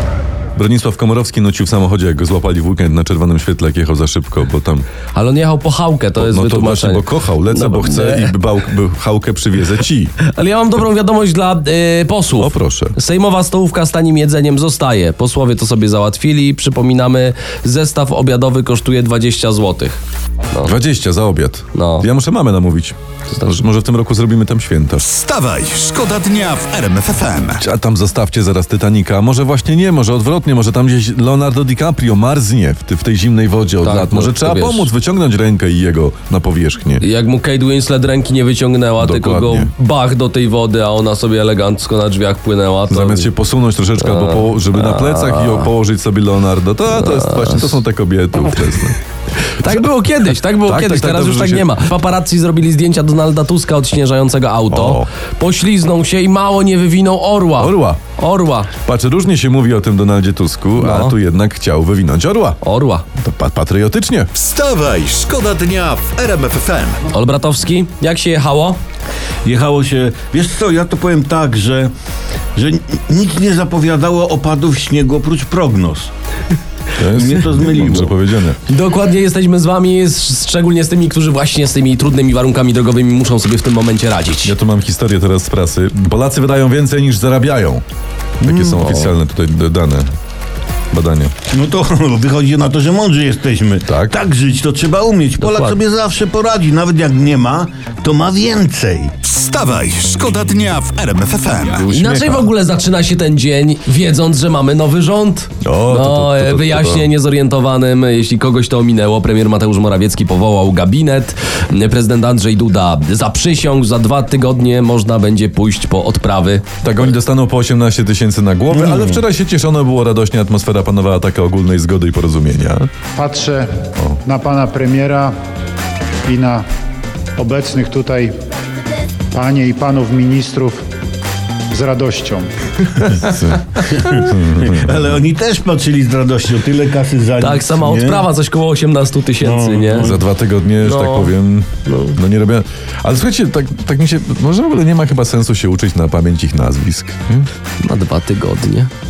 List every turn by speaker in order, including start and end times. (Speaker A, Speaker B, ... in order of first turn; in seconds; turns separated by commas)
Speaker A: 0.5-4.8, Speaker B: 5.1-8.3, Speaker A: 6.2-10.1, Speaker B: 10.2-20.0, Speaker A: 12.4-12.9, Speaker A: 20.6-25.0, Speaker B: 21.7-22.1, Speaker C: 25.0-27.6, Speaker A: 27.6-37.0, Speaker B: 33.8-34.9, Speaker B: 37.0-43.3, Speaker A: 39.0-39.7, Speaker A: 42.9-49.0, Speaker B: 44.0-45.7, Speaker B: 46.9-47.8, Speaker B: 49.5-58.7, Speaker A: 50.6-51.8, Speaker A: 54.7-55.1, Speaker A: 57.6-58.0, Speaker A: 58.8-62.6, Speaker B: 60.8-61.1, Speaker B: 62.6-63.0, Speaker A: 63.1-64.3, Speaker C: 64.3-67.0, Speaker B: 67.1-68.8, Speaker D: 69.4-71.9, Speaker D: 72.5-76.1, Speaker A: 77.0-78.6, Speaker D: 77.2-78.1, Speaker B: 78.7-84.5, Speaker A: 84.4-87.8, Speaker A: 88.4-90.1, Speaker B: 88.7-89.1, Speaker A: 90.9-91.3, Speaker D: 91.5-99.1, Speaker A: 93.9-94.2, Speaker B: 95.4-95.8, Speaker C: 99.2-101.8, Speaker A: 101.8-102.5, Speaker B: 101.9-116.6, Speaker A: 105.6-107.1, Speaker A: 116.8-122.9, Speaker D: 118.7-119.2, Speaker E: 123.2-123.7, Speaker E: 124.2-125.3, Speaker E: 126.2-126.6, Speaker E: 127.4-128.3, Speaker E: 129.3-130.8, Speaker E: 131.7-132.5, Speaker A: 133.1-135.1, Speaker D: 133.8-138.3, Speaker B: 137.4-140.2, Speaker D: 139.4-140.2, Speaker A: 139.9-147.5, Speaker B: 140.8-141.3, Speaker B: 141.8-142.2, Speaker B: 147.8-148.9